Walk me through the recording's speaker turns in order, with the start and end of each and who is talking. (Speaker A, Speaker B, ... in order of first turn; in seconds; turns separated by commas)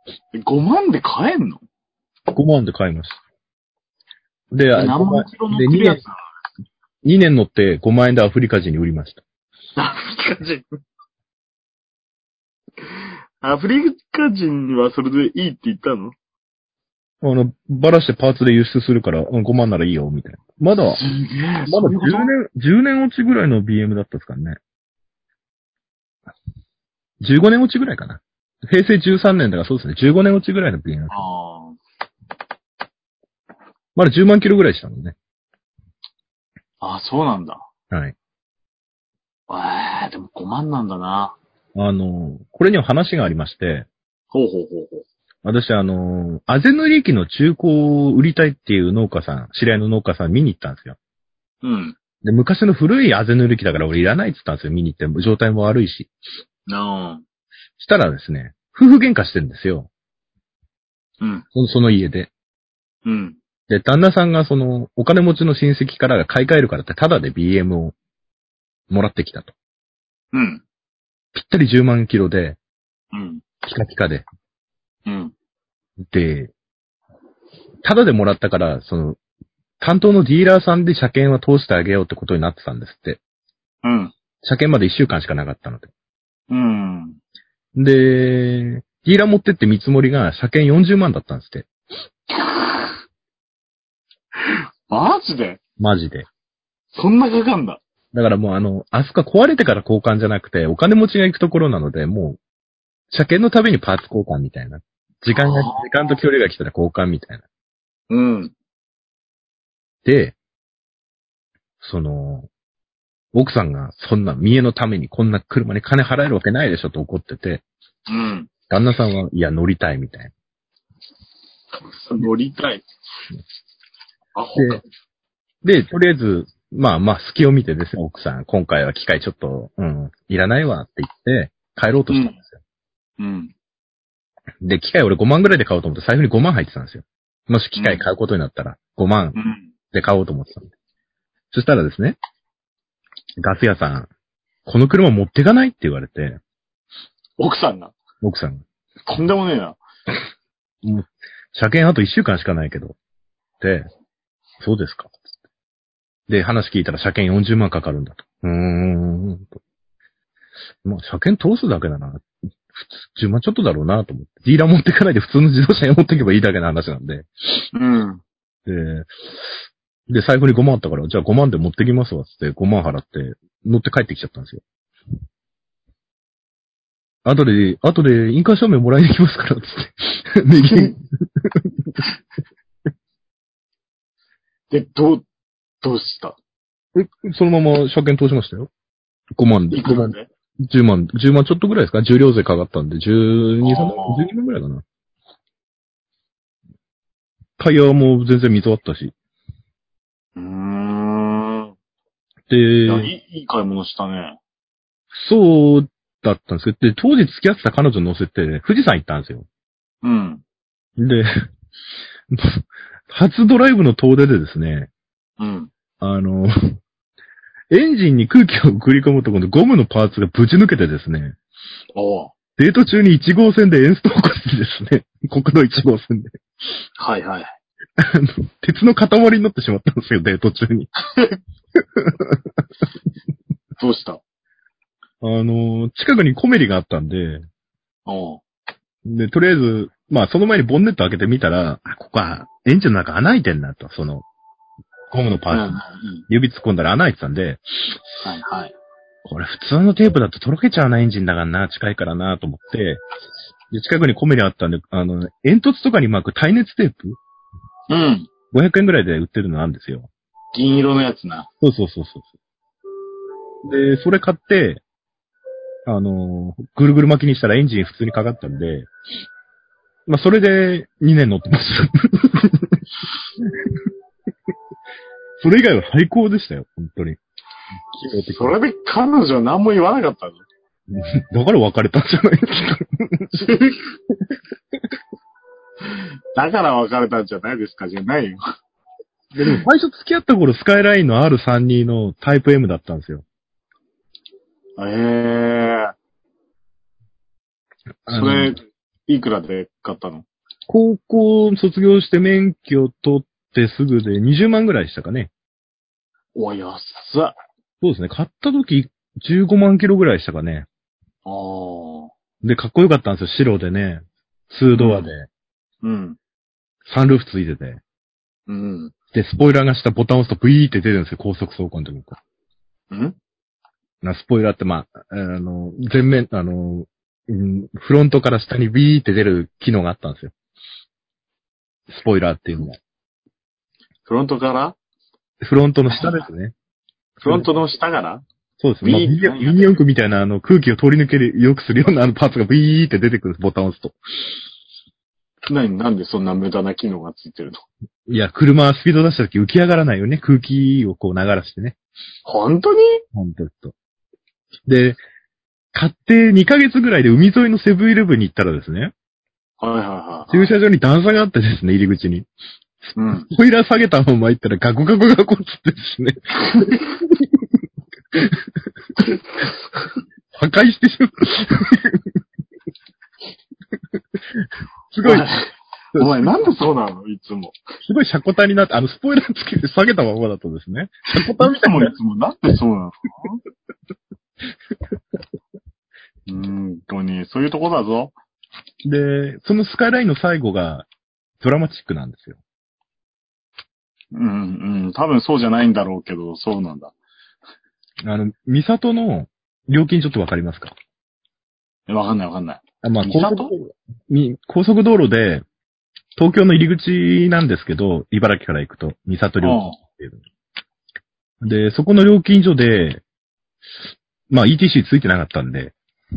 Speaker A: 0.3-1.6, Speaker B: 2.3-3.2, Speaker B: 4.5-6.0, Speaker A: 4.8-6.2, Speaker B: 7.0-9.2, Speaker A: 9.8-10.7, Speaker A: 13.4-16.2, Speaker B: 17.2-21.0, Speaker A: 20.9-22.3, Speaker B: 21.7-24.6, Speaker B: 27.2-31.2, Speaker A: 31.1-31.8, Speaker B: 34.0-35.1, Speaker A: 36.8-37.7, Speaker A: 39.5-41.4, Speaker B: 41.8-43.9, Speaker A: 44.3-45.0, Speaker B: 45.4-51.0, Speaker A: 51.6-52.0, Speaker B: 52.2-56.1, Speaker A: 56.7-57.2, Speaker B: 57.8-59.9, Speaker A: 61.2-61.5, Speaker B: 61.5-62.3, Speaker A: 63.0-63.4, Speaker B: 63.7-68.0, Speaker B: 68.9-69.5, Speaker A: 70.3-70.6, Speaker B: 71.3-72.6, Speaker A: 73.1-73.4, Speaker B: 73.6-74.2, Speaker A: 75.1-75.3, Speaker B: 76.0-76.5, Speaker B: 77.8-79.2, Speaker B: 79.8-83.2, Speaker A: 83.8-84.1, Speaker B: 84.4-85.9, Speaker A: 86.5-87.2, Speaker B: 87.8-91.7, Speaker A: 92.3-92.8, Speaker A: 94.5-95.6, Speaker B: 95.8-96.3, Speaker A: 96.9-97.8, Speaker B: 98.1-102.4, Speaker B: 103.1-107.4, Speaker A: 105.3-105.9, Speaker A: 108.1-108.5, Speaker B: 110.0-110.4, Speaker B: 111.8-112.5, Speaker B: 113.3-117.6, Speaker A: 118.1-118.5, Speaker B: 118.7-120.3, Speaker A: 121.8-122.8, Speaker A: 124.3-124.8, Speaker B: 124.5-124.8, Speaker B: 125.6-132.6, Speaker A: 132.1-132.4, Speaker A: 133.2-133.5, Speaker B: 134.6-139.4, Speaker A: 137.8-138.1, Speaker A: 139.3-139.7, Speaker B: 139.9-140.7, Speaker B: 141.5-142.2, Speaker B: 143.4-144.1, Speaker B: 144.7-146.4, Speaker A: 147.4-147.9, Speaker B: 148.2-148.6, Speaker A: 149.1-149.8, Speaker B: 150.8-153.0, Speaker B: 153.6-153.9, Speaker B: 154.6-155.1, Speaker B: 156.3-159.6, Speaker B: 160.8-167.3, Speaker A: 167.7-168.2, Speaker B: 168.7-169.5, Speaker B: 170.1-174.6, Speaker B: 177.2-182.0, Speaker A: 184.7-185.3, Speaker A: 185.8-186.4, Speaker B: 186.9-188.7, Speaker B: 189.4-194.8, Speaker A: 189.7-190.3, Speaker A: 193.6-194.3, Speaker B: 197.6-199.1, Speaker A: 200.4-201.7, Speaker B: 202.5-203.1, Speaker A: 202.9-204.4, Speaker B: 205.1-209.5, Speaker A: 210.0-210.4, Speaker B: 211.0-211.5, Speaker B: 212.3-214.9, Speaker A: 215.4-215.7, Speaker B: 216.0-216.8, Speaker B: 217.7-221.4, Speaker A: 221.9-222.3, Speaker B: 222.6-226.4, Speaker A: 227.0-227.5, Speaker B: 228.0-230.9, Speaker A: 231.1-231.4, Speaker B: 232.0-232.4, Speaker A: 233.8-234.2, Speaker B: 235.2-237.5, Speaker A: 238.1-238.4, Speaker B: 239.1-244.2, Speaker B: 245.1-247.6, Speaker A: 245.5-246.3, Speaker A: 248.2-248.8, Speaker B: 249.2-253.0, Speaker B: 253.7-257.2, Speaker A: 257.9-258.3, Speaker B: 258.5-260.1, Speaker A: 260.5-261.5, Speaker B: 261.6-262.3, Speaker B: 263.6-264.8, Speaker B: 265.9-268.9, Speaker B: 270.1-272.8, Speaker B: 273.4-273.7, Speaker B: 275.4-277.2, Speaker B: 277.9-278.5, Speaker A: 278.1-280.4, Speaker B: 280.9-283.4, Speaker A: 283.4-283.8, Speaker A: 286.4-288.4, Speaker B: 289.4-293.2, Speaker A: 294.8-295.9, Speaker B: 298.1-298.6, Speaker A: 298.1-300.3, Speaker B: 300.7-305.3, Speaker A: 306.4-307.4, Speaker B: 307.8-310.7, Speaker A: 311.2-312.1, Speaker B: 312.4-315.3, Speaker A: 314.7-315.1, Speaker A: 315.8-316.2, Speaker B: 316.9-317.8, Speaker A: 318.5-318.9, Speaker B: 319.1-322.2, Speaker A: 322.9-323.2, Speaker B: 324.0-330.3, Speaker B: 331.9-332.8, Speaker A: 334.1-334.8, Speaker B: 335.4-336.5, Speaker A: 335.9-336.2, Speaker B: 337.2-337.5, Speaker A: 337.2-338.2, Speaker B: 338.6-344.0, Speaker A: 338.8-339.8, Speaker A: 345.5-347.6, Speaker B: 348.1-351.8, Speaker A: 352.3-353.0, Speaker B: 353.1-353.7, Speaker B: 354.7-355.0, Speaker B: 355.7-358.9, Speaker A: 359.6-360.5, Speaker B: 360.3-362.3, Speaker A: 363.0-363.3, Speaker B: 363.3-367.3, Speaker A: 366.5-366.8, Speaker B: 368.1-368.4, Speaker B: 370.3-372.2, Speaker B: 374.4-375.3, Speaker A: 375.0-377.6, Speaker B: 375.9-376.3, Speaker B: 377.8-381.9, Speaker A: 381.2-383.4, Speaker A: 386.3-388.1, Speaker B: 388.8-390.9, Speaker B: 391.4-392.4, Speaker A: 394.1-396.9, Speaker B: 398.0-400.7, Speaker A: 401.9-403.5, Speaker B: 402.8-405.4, Speaker B: 406.2-410.2, Speaker A: 409.4-409.8, Speaker B: 411.4-413.0, Speaker B: 414.3-415.7